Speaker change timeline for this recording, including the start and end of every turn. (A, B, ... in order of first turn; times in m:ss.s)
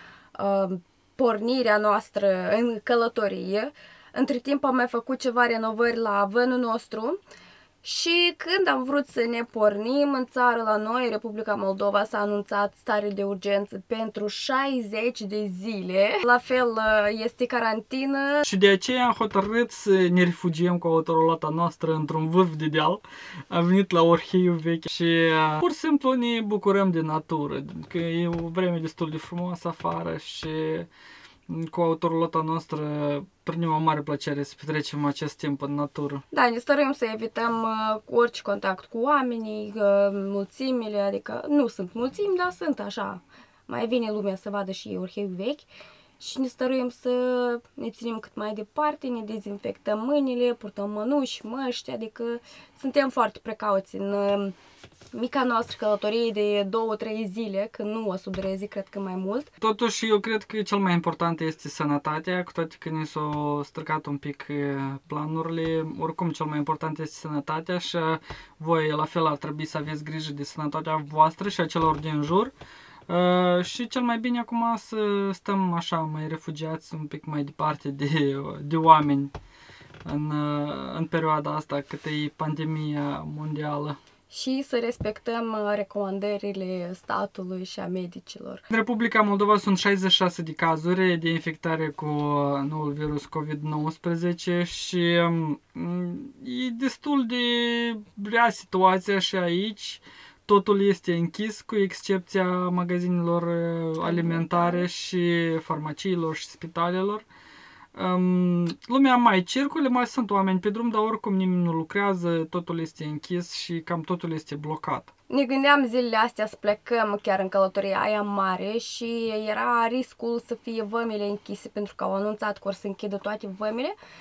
0:00.3-0:07.2 A
0:07.8-0:18.4 A
0:18.4-0:30.9 B
0:31.5-0:36.2 B
0:36.3-0:45.7 A
0:46.2-0:54.5 A
0:55.1-0:59.5 A
0:59.6-1:12.5 B
1:13.1-1:19.3 B
1:20.0-1:24.0 B
1:24.3-1:28.6 A
1:28.7-1:47.2 B
1:44.0-1:44.9 A
1:47.9-1:55.1 B
1:55.3-2:04.0 A